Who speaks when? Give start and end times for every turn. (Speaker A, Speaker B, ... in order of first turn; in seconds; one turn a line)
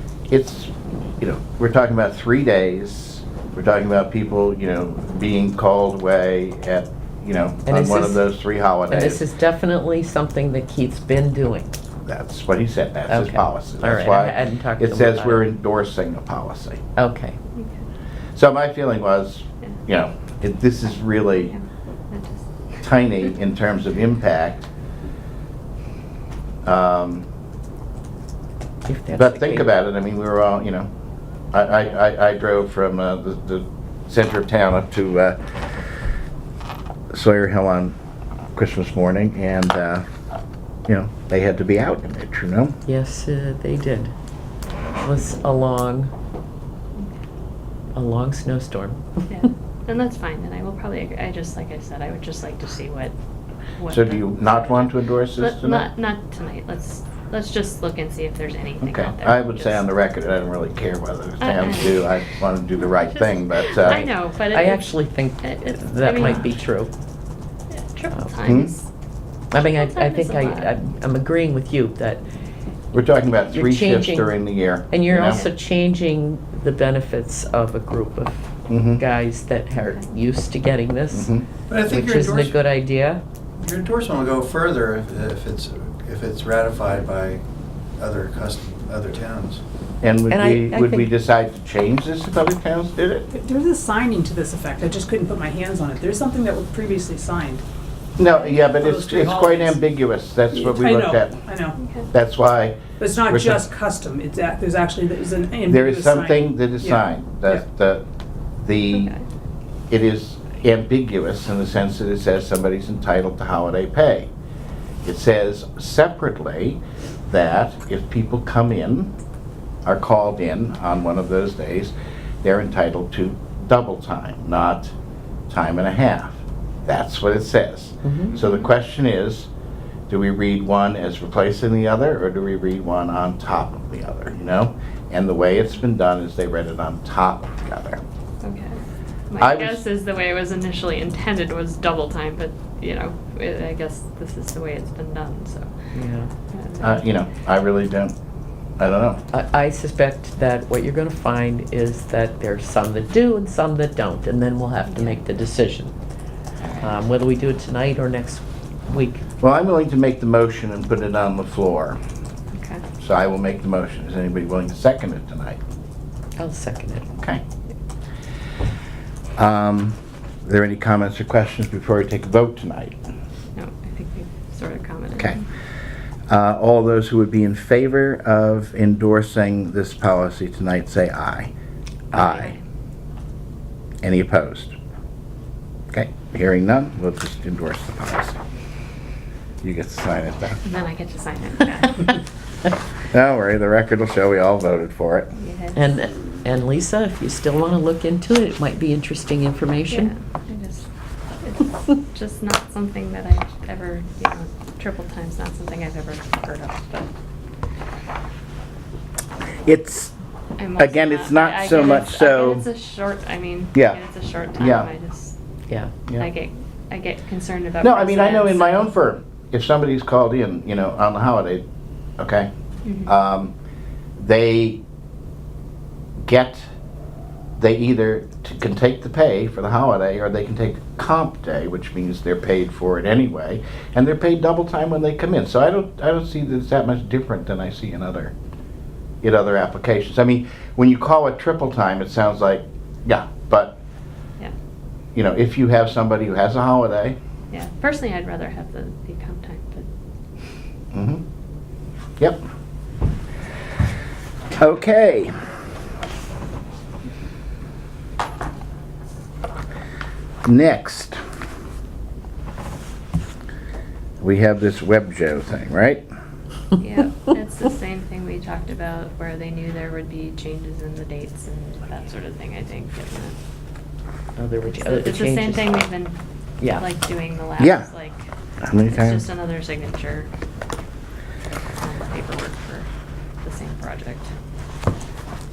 Speaker A: 0.3-9.2
Speaker B: 7.7-8.3
Speaker B: 8.9-11.7
Speaker A: 12.0-16.8
Speaker B: 13.1-15.4
Speaker B: 16.9-17.4
Speaker C: 17.6-17.8
Speaker A: 18.4-21.5
Speaker C: 21.3-22.4
Speaker A: 22.8-24.6
Speaker A: 26.6-27.2
Speaker B: 28.9-29.7
Speaker A: 29.1-30.9
Speaker A: 31.5-35.4
Speaker A: 37.1-37.9
Speaker A: 38.5-40.0
Speaker A: 40.9-42.8
Speaker B: 42.9-44.1
Speaker B: 45.0-46.1
Speaker B: 47.9-49.0
Speaker C: 49.3-53.1
Speaker C: 53.8-59.8
Speaker A: 53.9-55.9
Speaker A: 58.8-64.1
Speaker C: 61.4-62.2
Speaker C: 62.9-66.5
Speaker B: 63.7-66.9
Speaker C: 67.7-68.9
Speaker A: 68.4-68.7
Speaker B: 69.5-72.2
Speaker C: 69.6-70.7
Speaker A: 72.9-75.5
Speaker B: 73.5-74.3
Speaker B: 74.9-81.3
Speaker A: 78.7-79.0
Speaker A: 81.1-81.5
Speaker D: 81.7-82.6
Speaker B: 81.8-83.2
Speaker D: 83.6-87.4
Speaker D: 88.0-89.6
Speaker A: 90.0-93.3
Speaker B: 90.3-91.1
Speaker E: 93.3-97.6
Speaker A: 98.2-101.4
Speaker E: 98.7-99.8
Speaker E: 100.5-101.8
Speaker C: 101.8-102.1
Speaker A: 102.1-103.6
Speaker E: 103.0-107.6
Speaker A: 105.7-108.0
Speaker A: 108.6-109.1
Speaker C: 108.9-109.2
Speaker A: 109.9-114.3
Speaker A: 115.0-119.1
Speaker A: 119.8-124.9
Speaker A: 125.5-129.5
Speaker B: 128.0-128.3
Speaker C: 128.3-128.7
Speaker A: 130.1-138.0
Speaker C: 138.4-145.9
Speaker A: 139.4-139.8
Speaker B: 145.9-146.3
Speaker C: 146.5-147.2
Speaker A: 146.8-148.1
Speaker A: 148.8-149.2
Speaker B: 149.3-155.9
Speaker C: 154.9-155.2
Speaker A: 156.6-156.9
Speaker B: 156.8-159.2
Speaker A: 159.4-162.0
Speaker C: 162.5-162.8
Speaker A: 163.0-165.6
Speaker B: 166.4-167.1
Speaker A: 167.1-167.4
Speaker A: 169.4-173.0
Speaker C: 173.5-175.4
Speaker A: 176.3-181.5
Speaker A: 182.1-182.6
Speaker C: 182.1-182.6
Speaker A: 184.0-184.7
Speaker A: 185.9-188.4
Speaker A: 189.6-190.6
Speaker C: 190.6-192.2
Speaker A: 193.1-195.3
Speaker C: 195.4-195.9
Speaker B: 195.7-200.1
Speaker C: 199.9-200.9
Speaker C: 201.4-207.1
Speaker A: 209.6-210.1
Speaker C: 210.6-215.3
Speaker A: 210.8-212.7
Speaker A: 213.7-214.0
Speaker A: 214.6-214.9
Speaker C: 216.2-218.9
Speaker A: 217.8-221.6
Speaker A: 222.2-222.5
Speaker C: 222.8-223.1
Speaker A: 223.1-223.5
Speaker A: 224.2-224.8
Speaker A: 226.2-226.7
Speaker A: 227.6-238.3
Speaker A: 239.2-243.8
Speaker A: 245.1-247.2
Speaker C: 247.5-249.9
Speaker A: 250.9-251.2
Speaker A: 254.6-255.4
Speaker A: 260.4-261.2
Speaker A: 264.2-266.1
Speaker C: 266.8-273.4
Speaker B: 274.4-275.8
Speaker C: 274.6-276.2
Speaker B: 276.6-276.9
Speaker C: 276.7-278.3
Speaker A: 277.6-277.9
Speaker A: 278.6-279.2
Speaker C: 278.9-280.3
Speaker C: 281.8-282.9
Speaker C: 283.4-284.3